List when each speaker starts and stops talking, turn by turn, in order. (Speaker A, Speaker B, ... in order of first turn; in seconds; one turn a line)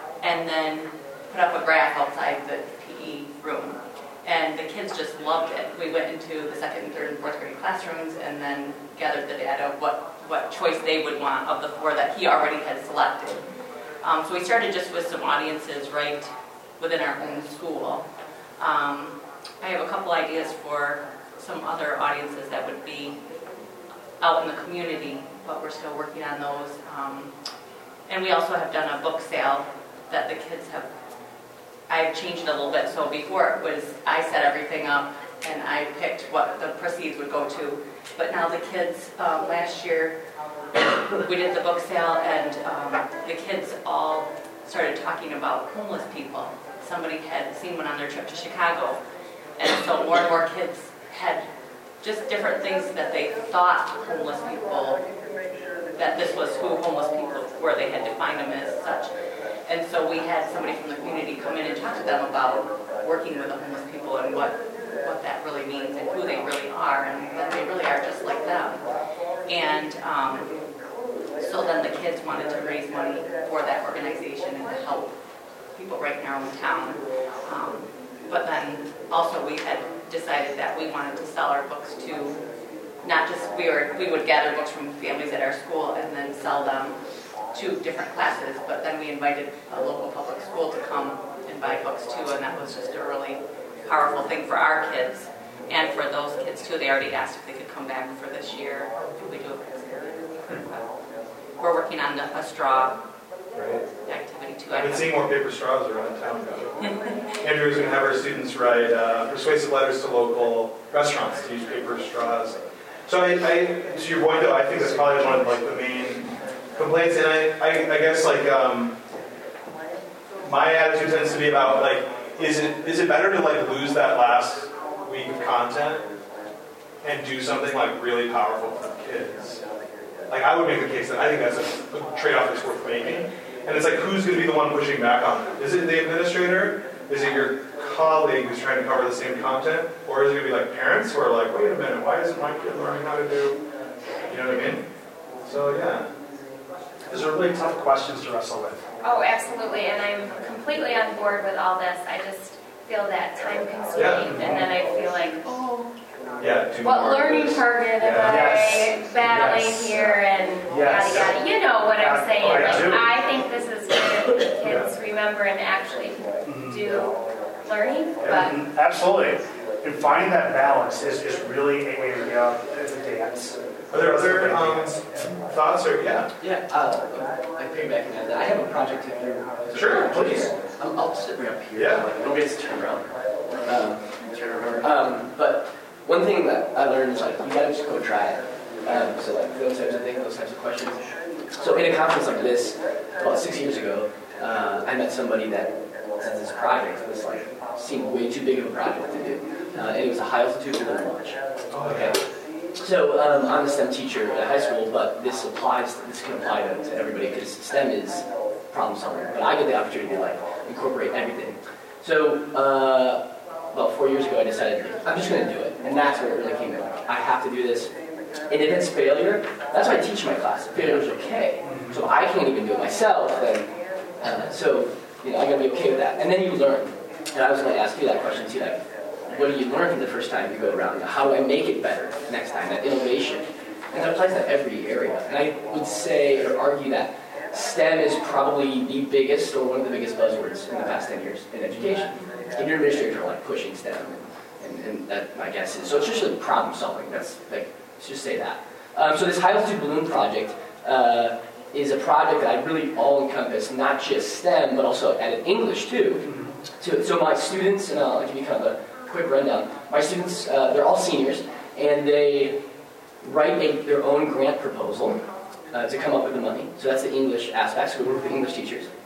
Speaker A: 0.2-13.4
Speaker A: 14.0-18.0
Speaker A: 18.6-23.2
Speaker A: 24.2-27.3
Speaker A: 28.1-30.9
Speaker A: 31.9-40.1
Speaker A: 41.2-49.0
Speaker A: 49.6-51.4
Speaker A: 52.0-55.0
Speaker A: 56.0-59.1
Speaker A: 59.7-68.8
Speaker A: 69.5-70.5
Speaker A: 71.4-75.1
Speaker A: 75.7-82.4
Speaker A: 83.0-87.0
Speaker A: 87.5-100.8
Speaker A: 101.6-103.0
Speaker B: 103.5-103.9
Speaker A: 104.0-105.2
Speaker B: 104.7-106.7
Speaker A: 106.8-107.2
Speaker B: 107.4-119.0
Speaker B: 120.4-126.0
Speaker B: 127.0-129.6
Speaker B: 130.3-143.6
Speaker B: 144.3-144.8
Speaker B: 145.4-146.1
Speaker C: 147.1-148.8
Speaker D: 149.0-155.5
Speaker B: 153.9-154.6
Speaker C: 154.3-154.6
Speaker B: 156.4-158.7
Speaker D: 156.8-168.6
Speaker C: 158.2-159.8
Speaker B: 159.3-159.7
Speaker C: 160.7-161.3
Speaker C: 161.9-163.1
Speaker B: 164.6-164.9
Speaker C: 166.4-167.0
Speaker B: 168.2-168.5
Speaker C: 168.2-175.3
Speaker B: 173.9-176.3
Speaker E: 176.4-191.0
Speaker B: 179.7-180.1
Speaker C: 180.1-180.5
Speaker B: 181.7-182.1
Speaker E: 191.6-202.2
Speaker B: 201.7-202.2
Speaker E: 202.8-217.9
Speaker E: 218.5-223.7
Speaker C: 221.6-222.0
Speaker E: 224.2-256.3
Speaker C: 256.2-256.5
Speaker E: 256.8-262.6
Speaker E: 263.2-265.2
Speaker E: 265.7-268.9